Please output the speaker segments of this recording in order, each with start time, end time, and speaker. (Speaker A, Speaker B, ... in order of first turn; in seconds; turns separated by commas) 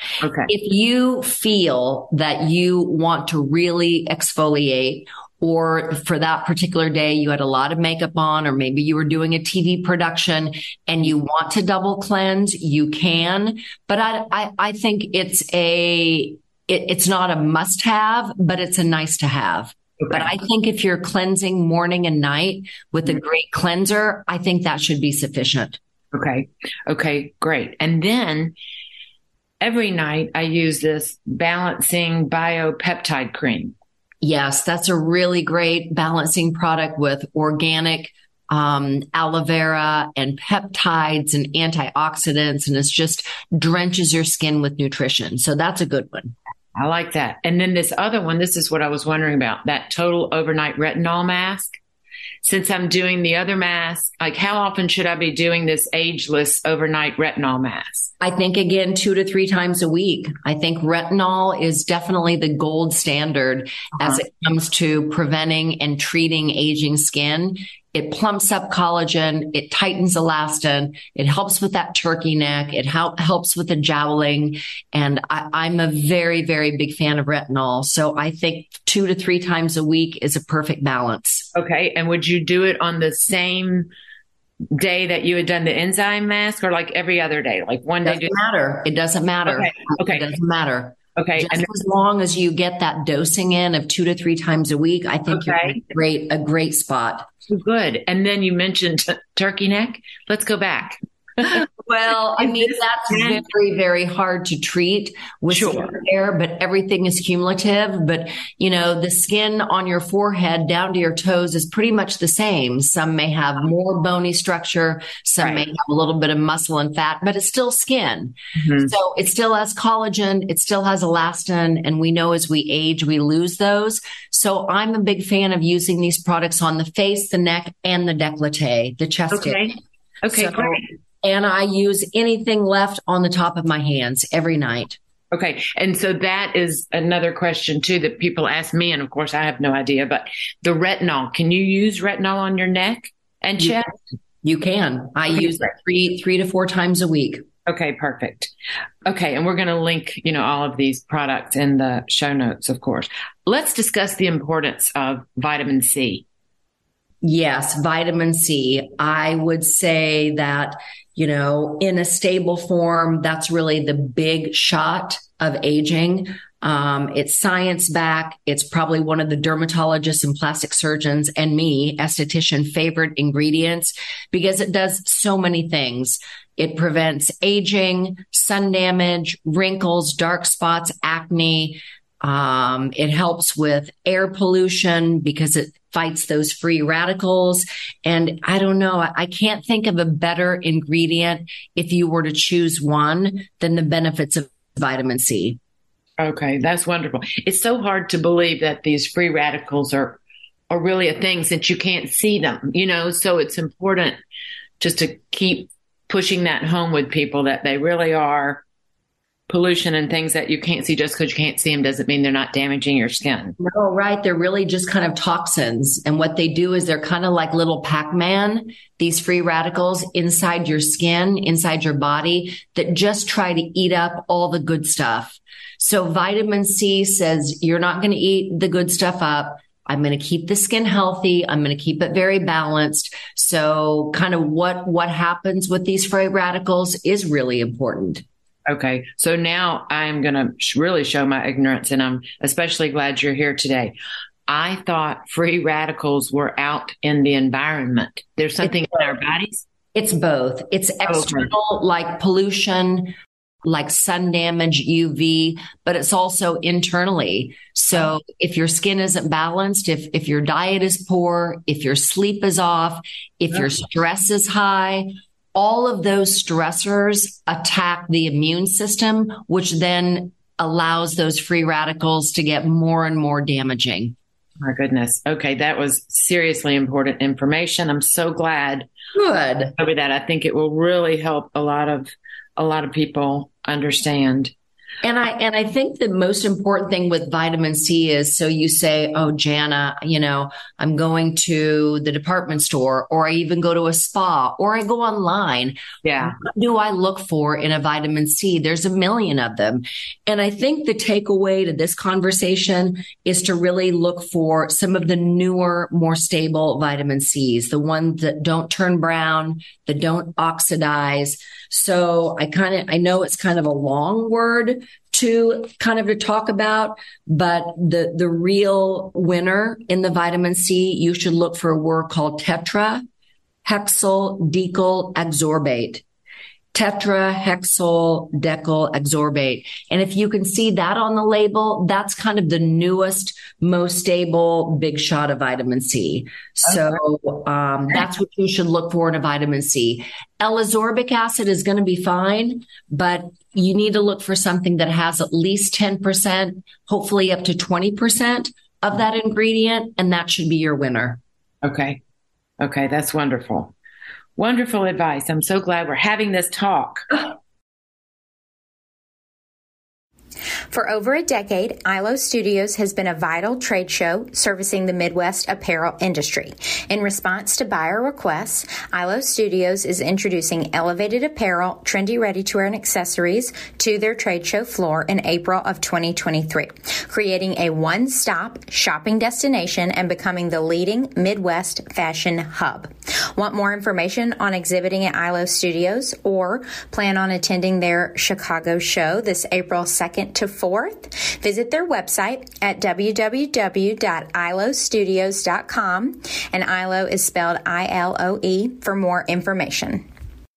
Speaker A: 0.2-0.5, Speaker B: 0.5-25.8, Speaker A: 26.1-28.6, Speaker A: 29.6-33.7, Speaker B: 34.2-46.3, Speaker A: 46.7-51.7, Speaker A: 52.4-58.1, Speaker B: 58.2-81.5, Speaker A: 81.5-83.9, Speaker A: 84.7-88.3, Speaker B: 88.0-97.3, Speaker A: 89.5-90.2, Speaker A: 91.2-91.7, Speaker A: 95.3-95.8, Speaker A: 97.5-101.6, Speaker B: 101.5-129.7, Speaker A: 102.4-103.4, Speaker A: 105.5-105.9, Speaker A: 115.4-115.6, Speaker A: 118.6-118.9, Speaker A: 129.3-130.9, Speaker B: 130.3-135.0, Speaker A: 135.3-143.9, Speaker B: 144.4-147.4, Speaker A: 145.3-145.7, Speaker A: 147.7-148.5, Speaker A: 149.0-156.2, Speaker B: 157.2-195.6, Speaker A: 196.2-200.2, Speaker A: 200.7-204.2, Speaker A: 204.8-208.6, Speaker A: 209.5-213.6, Speaker B: 213.6-238.2, Speaker A: 238.7-243.9, Speaker A: 244.5-249.7, Speaker B: 249.9-274.1, Speaker A: 251.1-251.5, Speaker A: 274.6-278.9, Speaker B: 279.1-279.7, Speaker A: 279.8-284.5, Speaker B: 285.0-323.0, Speaker A: 296.0-296.4, Speaker B: 323.6-326.0, Speaker B: 326.7-351.2, Speaker A: 351.6-352.0, Speaker A: 352.6-353.7, Speaker A: 354.4-357.1, Speaker C: 360.7-400.0